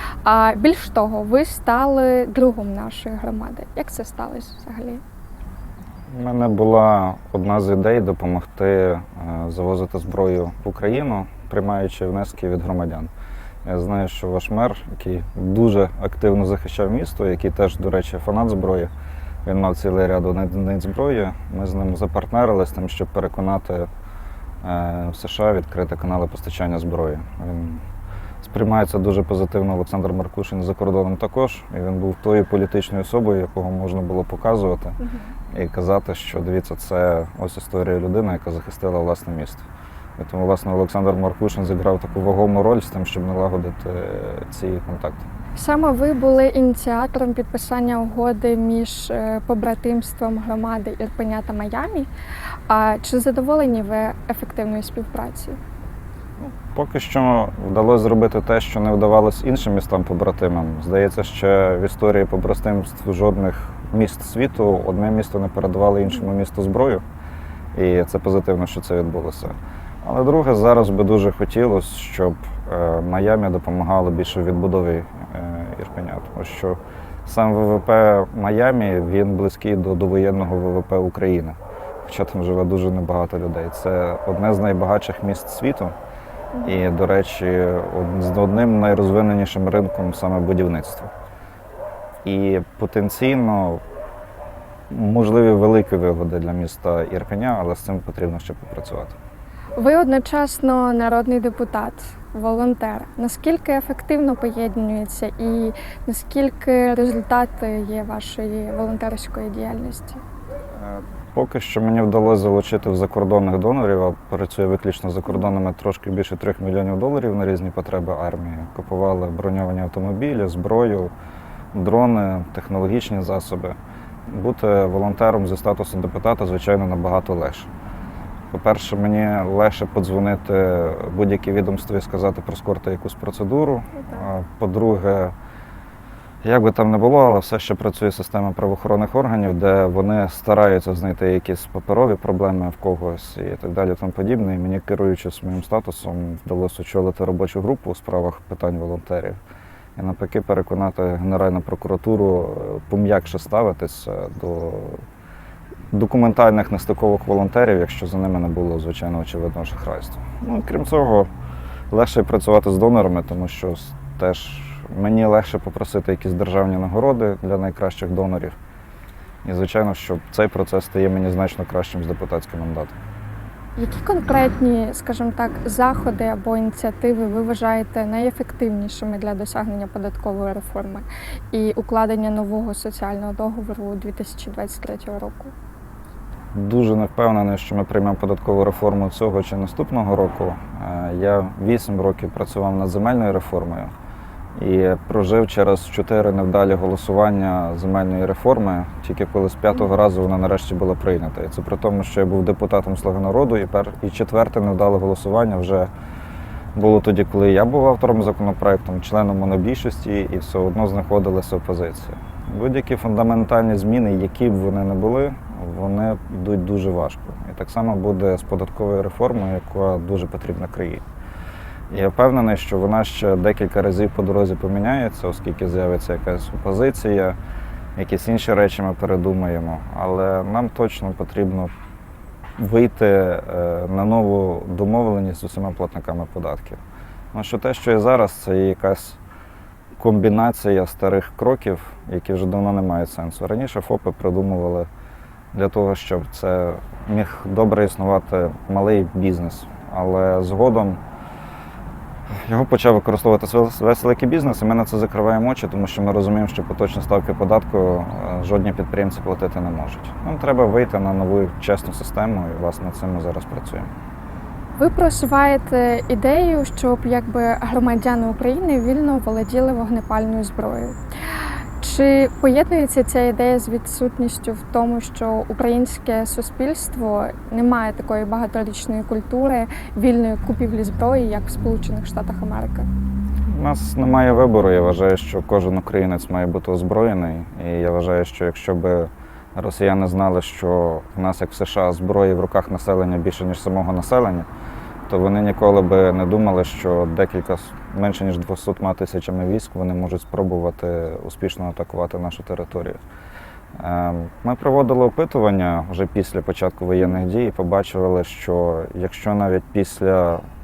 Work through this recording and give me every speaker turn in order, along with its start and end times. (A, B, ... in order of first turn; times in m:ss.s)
0:00.2-0:05.0 A
0:06.1-0:13.1 B
0:13.6-0:18.9 B
0:19.4-0:23.9 B
0:24.6-0:27.8 B
0:28.4-0:35.0 B
0:35.0-0:35.3 A
0:35.5-0:39.7 B
0:40.2-0:45.2 B
0:45.6-0:52.1 A
0:52.7-0:55.6 A
0:56.4-1:07.0 B
1:07.8-1:25.9 B
1:26.6-1:31.1 B
1:32.2-1:33.8 B
1:34.9-1:39.2 B
1:39.8-1:50.2 A
1:50.8-2:01.1 B
2:01.7-2:03.8 B
2:04.3-2:07.7 B
2:08.5-2:15.3 B
2:16.4-2:29.4 B
2:30.0-2:35.0 B
2:35.9-2:41.3 B
2:41.9-2:48.6 B
2:49.4-2:52.9 B
2:53.8-3:05.5 A
3:06.6-3:13.9 B
3:14.6-3:25.9 B
3:26.8-3:41.0 B
3:41.9-3:47.4 B
3:48.0-3:51.7 B
3:52.6-3:56.8 B
3:57.3-3:59.2 B
4:00.0-4:04.9 B
4:05.5-4:11.0 B
4:12.4-4:23.9 B
4:24.8-4:31.0 A
4:31.8-4:42.9 A
4:43.5-4:54.5 B
4:55.1-5:03.0 B
5:03.8-5:10.4 B